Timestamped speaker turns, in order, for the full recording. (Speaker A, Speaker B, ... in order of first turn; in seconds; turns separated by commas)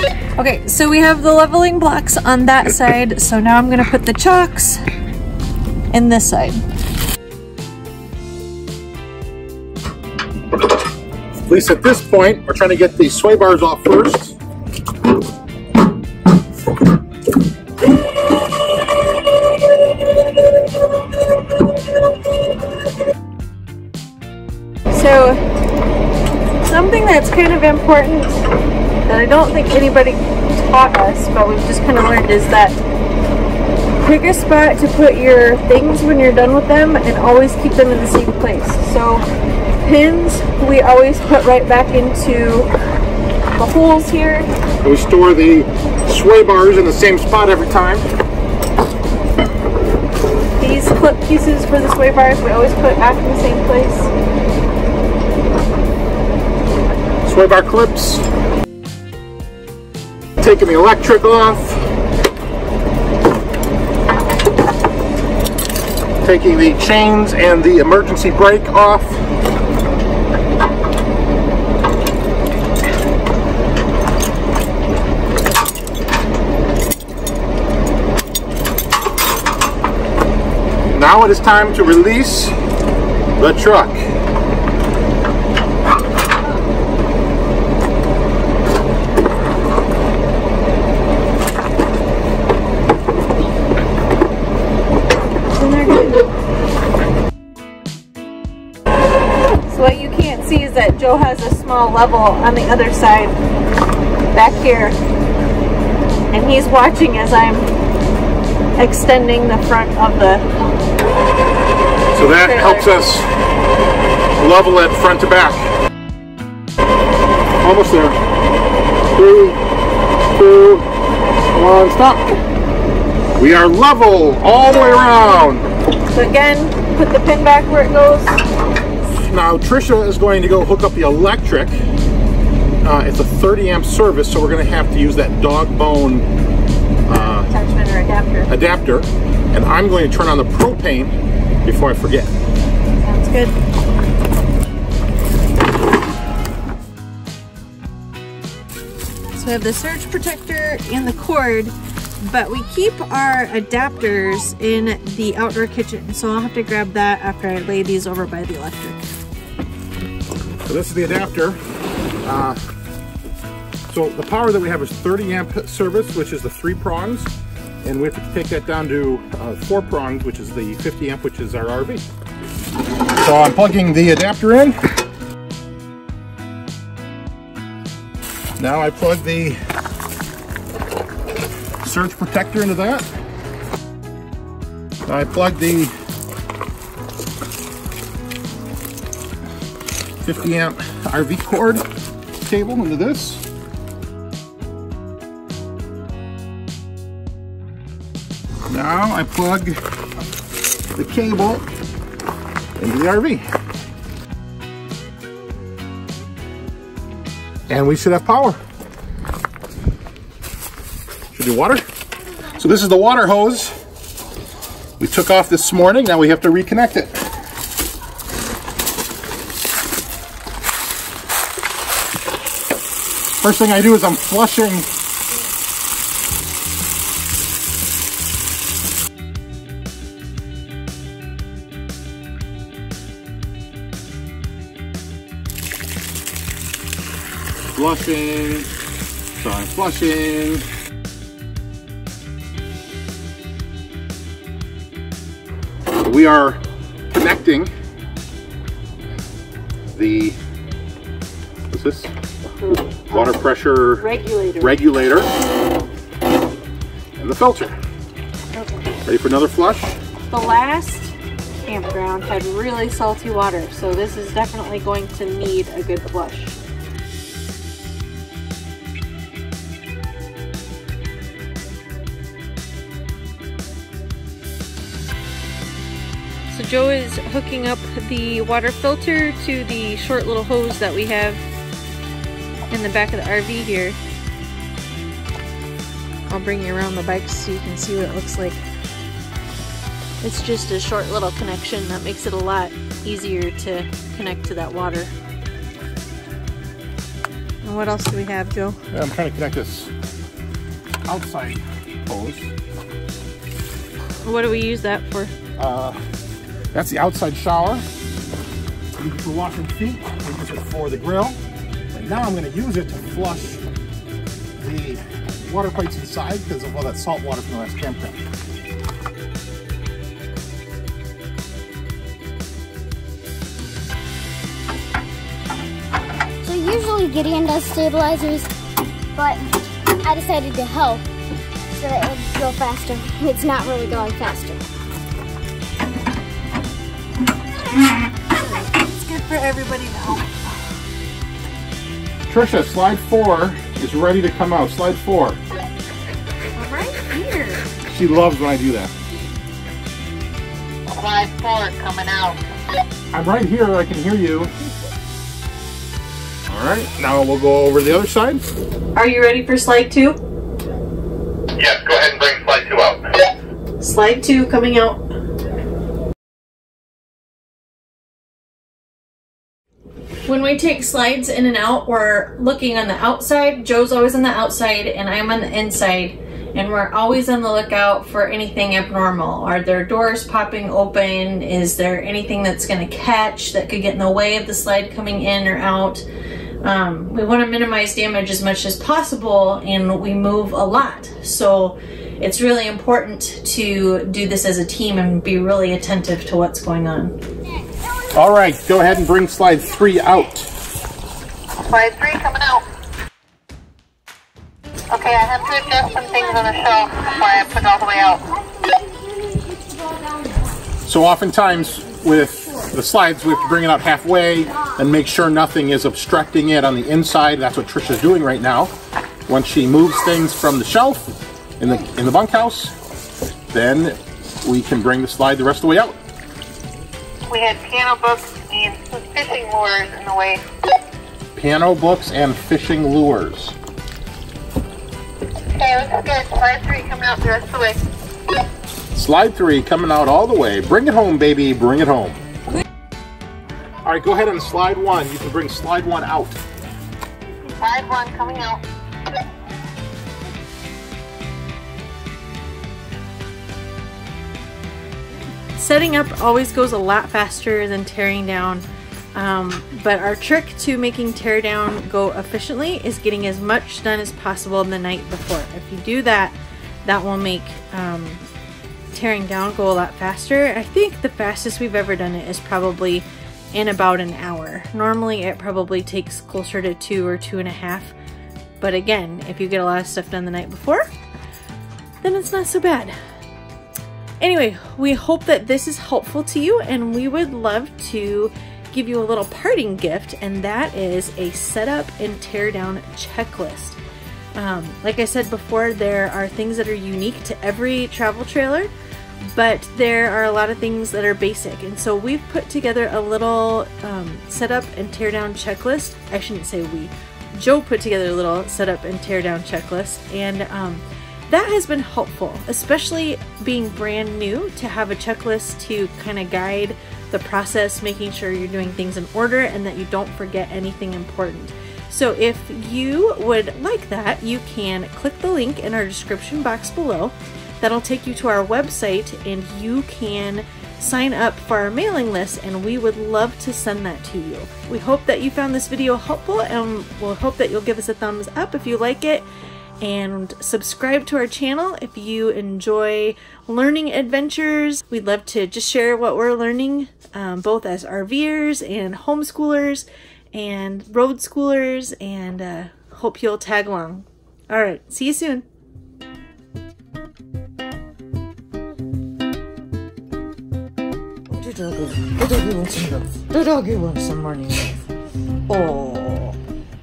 Speaker A: 0.4-4.8, Speaker A: 5.9-6.6, Speaker B: 11.4-14.4, Speaker A: 24.9-25.4, Speaker A: 26.6-28.4, Speaker A: 29.1-32.8, Speaker A: 34.0-39.2, Speaker A: 39.8-42.7, Speaker A: 43.5-44.5, Speaker B: 44.8-48.1, Speaker A: 50.6-54.1, Speaker B: 57.2-58.2, Speaker B: 60.4-61.8, Speaker B: 66.2-69.2, Speaker B: 80.9-82.5, Speaker B: 83.4-84.1, Speaker A: 95.5-96.3, Speaker A: 99.7-103.4, Speaker A: 104.3-105.0, Speaker A: 106.3-107.7, Speaker A: 108.8-110.4, Speaker B: 112.1-113.3, Speaker A: 112.4-112.9, Speaker B: 114.4-115.7, Speaker B: 117.6-118.2, Speaker B: 119.1-119.6, Speaker B: 120.3-120.9, Speaker B: 121.5-122.3, Speaker B: 123.4-125.7, Speaker A: 126.1-128.4, Speaker B: 129.2-131.8, Speaker B: 132.8-136.3, Speaker B: 137.1-137.5, Speaker A: 137.1-138.5, Speaker B: 138.5-142.3, Speaker A: 143.0-143.5, Speaker A: 149.3-159.0, Speaker B: 160.7-161.6, Speaker B: 162.2-162.6, Speaker B: 163.9-167.3, Speaker B: 167.8-172.0, Speaker B: 173.1-174.9, Speaker B: 178.6-179.6, Speaker B: 181.8-183.1, Speaker B: 185.1-185.9, Speaker B: 190.2-191.8, Speaker B: 192.4-193.4, Speaker B: 198.7-199.8, Speaker B: 200.9-201.6, Speaker B: 202.8-203.4, Speaker B: 207.7-208.6, Speaker B: 211.3-211.8, Speaker B: 212.6-213.7, Speaker B: 215.0-217.2, Speaker B: 223.4-224.9, Speaker B: 237.7-238.7, Speaker B: 239.3-240.7, Speaker B: 246.0-247.7, Speaker B: 249.9-250.4, Speaker B: 251.7-252.1, Speaker A: 252.6-253.4, Speaker B: 253.1-254.0, Speaker A: 253.9-254.8, Speaker B: 254.6-255.3, Speaker B: 257.2-257.7, Speaker A: 258.5-258.9, Speaker B: 259.0-259.9, Speaker A: 260.3-261.1, Speaker A: 261.6-266.6, Speaker A: 276.5-281.4, Speaker A: 282.7-284.0, Speaker A: 286.3-288.6, Speaker A: 290.2-295.1, Speaker A: 297.6-298.8, Speaker B: 298.9-299.9, Speaker B: 301.0-302.5, Speaker A: 304.2-305.3, Speaker B: 305.6-306.0, Speaker B: 306.7-307.8, Speaker B: 309.0-311.4, Speaker B: 311.9-313.6, Speaker B: 314.6-318.2, Speaker C: 326.4-328.5, Speaker C: 329.1-331.1, Speaker C: 331.7-334.6, Speaker A: 338.3-340.4, Speaker B: 342.3-345.4, Speaker A: 346.6-347.6, Speaker B: 347.9-348.9, Speaker D: 350.9-352.4, Speaker B: 353.1-354.5, Speaker B: 356.5-358.4, Speaker A: 358.9-360.2, Speaker D: 361.6-362.9, Speaker A: 363.8-365.0, Speaker A: 370.2-386.0, Speaker A: 386.6-397.1, Speaker B: 398.1-400.5, Speaker D: 401.6-402.6, Speaker D: 404.9-408.2, Speaker B: 410.8-418.7, Speaker B: 419.2-422.7, Speaker B: 423.5-426.0, Speaker D: 427.3-430.4, Speaker B: 431.3-433.6, Speaker D: 435.5-437.8, Speaker B: 438.9-442.2, Speaker B: 443.8-446.4, Speaker D: 447.6-448.6, Speaker A: 455.5-468.2, Speaker A: 468.9-477.9, Speaker A: 478.6-480.9, Speaker A: 482.0-482.9, Speaker A: 484.2-493.8, Speaker A: 494.4-498.7, Speaker A: 499.2-539.3, Speaker A: 539.8-555.4, Speaker A: 561.3-564.8, Speaker A: 565.5-566.4